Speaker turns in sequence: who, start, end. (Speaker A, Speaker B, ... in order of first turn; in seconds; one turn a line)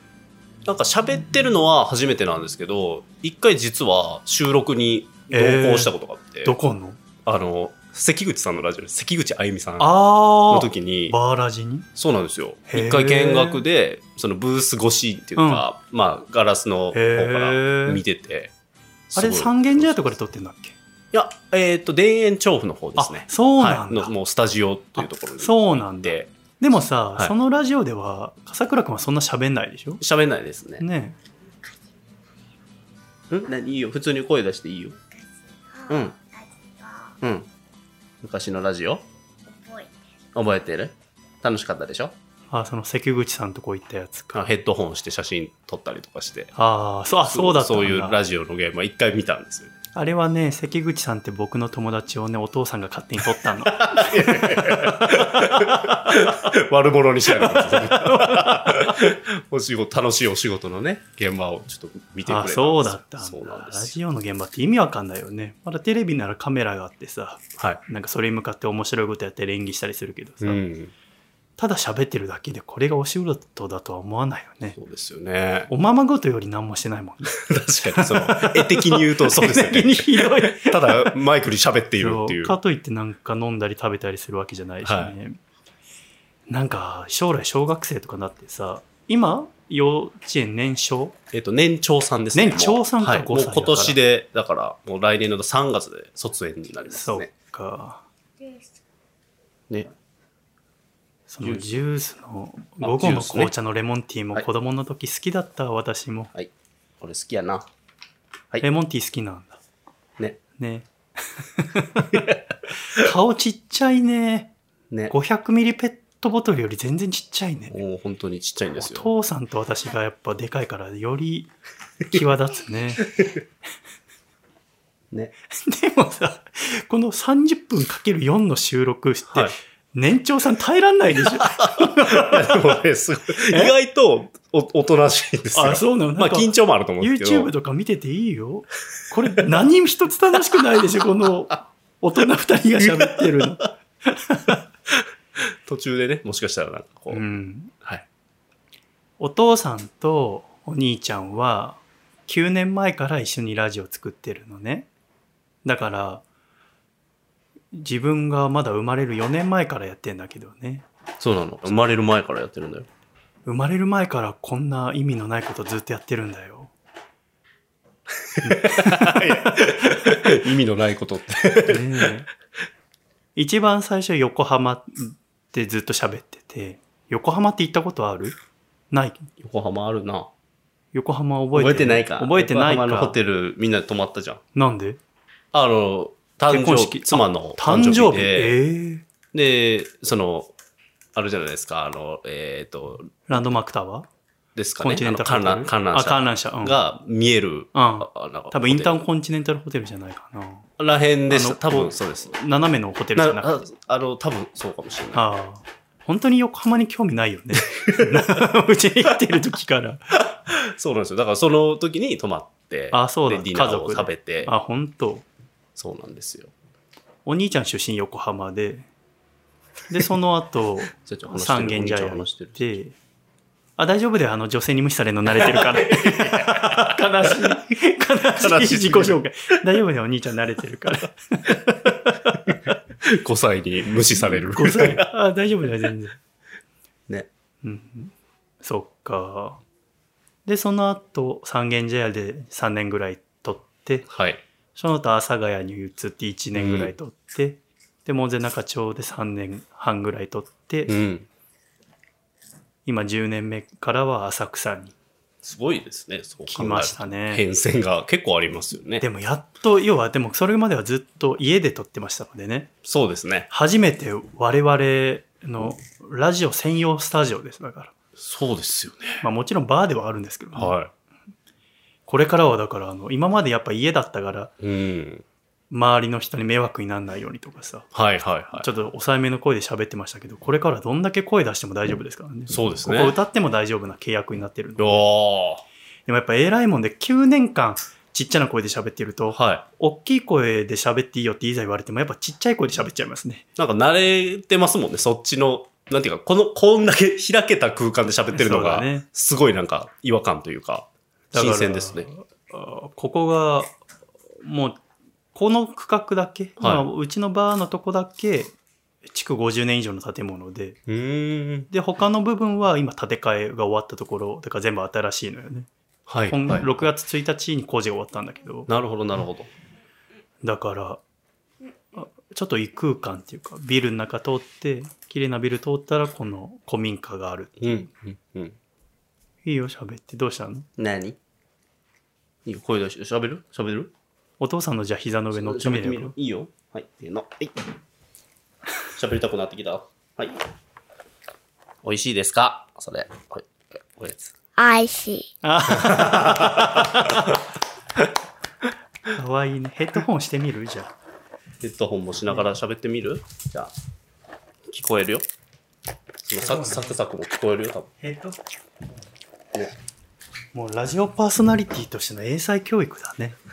Speaker A: 0.6-6.5
Speaker B: 5.3-5.9
Speaker B: 6.4-7.0
Speaker A: 7.2-9.9
Speaker B: 9.8-11.9
Speaker A: 10.5-11.2
Speaker A: 11.9-18.5
Speaker B: 12.7-13.6
Speaker B: 15.4-15.7
Speaker B: 16.9-18.0
Speaker A: 19.1-20.0
Speaker B: 19.1-20.8
Speaker A: 21.1-26.3
Speaker B: 23.0-24.1
Speaker B: 25.0-30.0
Speaker A: 30.0-30.8
Speaker B: 30.8-31.1
Speaker C: 31.6-31.9
Speaker A: 33.3-35.0
Speaker C: 35.1-37.2
Speaker A: 35.9-36.1
Speaker A: 37.2-37.5
Speaker A: 38.2-39.0
Speaker C: 39.5-39.9
Speaker A: 40.3-42.1
Speaker B: 42.5-44.4
Speaker A: 44.3-46.5
Speaker B: 46.5-48.2
Speaker A: 47.2-49.7
Speaker B: 49.9-56.3
Speaker A: 53.6-64.0
Speaker B: 57.4-59.0
Speaker B: 62.2-70.6
Speaker A: 67.6-67.8
Speaker A: 70.4-70.9
Speaker B: 71.6-74.8
Speaker A: 74.8-75.7
Speaker B: 75.7-77.4
Speaker A: 77.3-82.6
Speaker B: 77.9-81.2
Speaker B: 82.0-85.4
Speaker A: 84.8-85.1
Speaker B: 86.5-91.1
Speaker A: 91.3-97.3
Speaker B: 92.3-94.0
Speaker B: 96.9-98.0
Speaker C: 98.4-98.8
Speaker B: 101.3-106.3
Speaker A: 102.8-103.5
Speaker A: 106.3-107.7
Speaker B: 108.6-109.6
Speaker B: 110.6-112.3
Speaker A: 112.1-112.4
Speaker B: 112.8-114.5
Speaker B: 115.1-117.8
Speaker A: 117.7-119.1
Speaker B: 118.7-121.5
Speaker B: 122.1-123.2
Speaker B: 125.6-132.7
Speaker A: 131.3-137.5
Speaker B: 133.5-133.7
Speaker B: 135.5-144.6
Speaker A: 142.8-143.5
Speaker A: 144.9-147.2
Speaker B: 147.1-147.7
Speaker B: 149.2-154.9
Speaker B: 155.6-156.2
Speaker B: 157.7-160.8
Speaker A: 161.2-162.9
Speaker B: 163.4-166.7
Speaker A: 168.1-172.1
Speaker B: 168.4-169.5
Speaker B: 171.6-172.3
Speaker B: 173.3-178.3
Speaker B: 178.9-179.3
Speaker A: 179.4-180.3
Speaker B: 180.9-183.2
Speaker A: 181.5-184.4
Speaker B: 184.5-185.0
Speaker A: 185.5-188.6
Speaker B: 186.5-189.0
Speaker A: 189.3-190.5
Speaker A: 191.1-193.1
Speaker B: 193.3-194.1
Speaker A: 194.5-199.0
Speaker B: 194.8-196.8
Speaker B: 197.7-200.7
Speaker A: 200.8-202.3
Speaker B: 201.3-203.5
Speaker A: 203.2-205.2
Speaker B: 205.1-210.2
Speaker A: 207.7-208.4
Speaker A: 210.4-214.5
Speaker B: 212.9-215.2
Speaker A: 215.8-216.5
Speaker B: 217.2-218.9
Speaker B: 219.9-222.9
Speaker A: 221.0-222.7
Speaker B: 223.8-232.7
Speaker A: 225.3-227.5
Speaker A: 228.4-229.2
Speaker A: 232.3-235.1
Speaker B: 234.2-236.2
Speaker B: 237.6-239.6
Speaker B: 240.4-244.1
Speaker A: 244.1-244.4
Speaker B: 244.7-251.0
Speaker A: 246.5-246.9
Speaker A: 250.9-251.3
Speaker B: 252.8-254.9
Speaker A: 255.4-259.0
Speaker B: 256.5-257.4
Speaker B: 259.0-262.7
Speaker A: 262.8-263.5
Speaker B: 263.5-267.9
Speaker A: 268.2-269.2
Speaker B: 269.2-270.7
Speaker A: 270.6-270.9
Speaker B: 272.1-274.5
Speaker A: 274.6-275.2
Speaker B: 275.7-277.9
Speaker A: 277.9-278.7
Speaker B: 278.6-285.0
Speaker A: 282.5-283.2
Speaker A: 284.8-285.6
Speaker B: 286.1-293.4
Speaker A: 289.3-289.6
Speaker A: 293.6-302.1
Speaker B: 298.3-299.1
Speaker B: 301.3-303.7
Speaker B: 304.4-304.8
Speaker B: 305.3-308.5
Speaker A: 306.6-306.9
Speaker B: 309.0-310.8
Speaker A: 310.9-311.7
Speaker B: 311.7-315.7
Speaker A: 316.1-316.9
Speaker B: 316.3-318.7
Speaker A: 318.7-319.5
Speaker B: 320.4-321.0
Speaker B: 321.9-327.8
Speaker A: 327.6-328.6
Speaker B: 329.4-330.7
Speaker A: 330.8-331.2
Speaker A: 332.4-333.9
Speaker B: 334.4-336.1
Speaker A: 335.3-337.6
Speaker A: 338.9-340.4
Speaker A: 341.8-344.3
Speaker C: 344.6-345.3
Speaker B: 345.4-347.4
Speaker A: 345.7-347.3
Speaker B: 349.1-350.9
Speaker A: 351.6-353.7
Speaker A: 354.7-355.3
Speaker A: 356.2-357.9
Speaker B: 356.4-356.9
Speaker B: 358.0-358.4
Speaker B: 360.5-363.4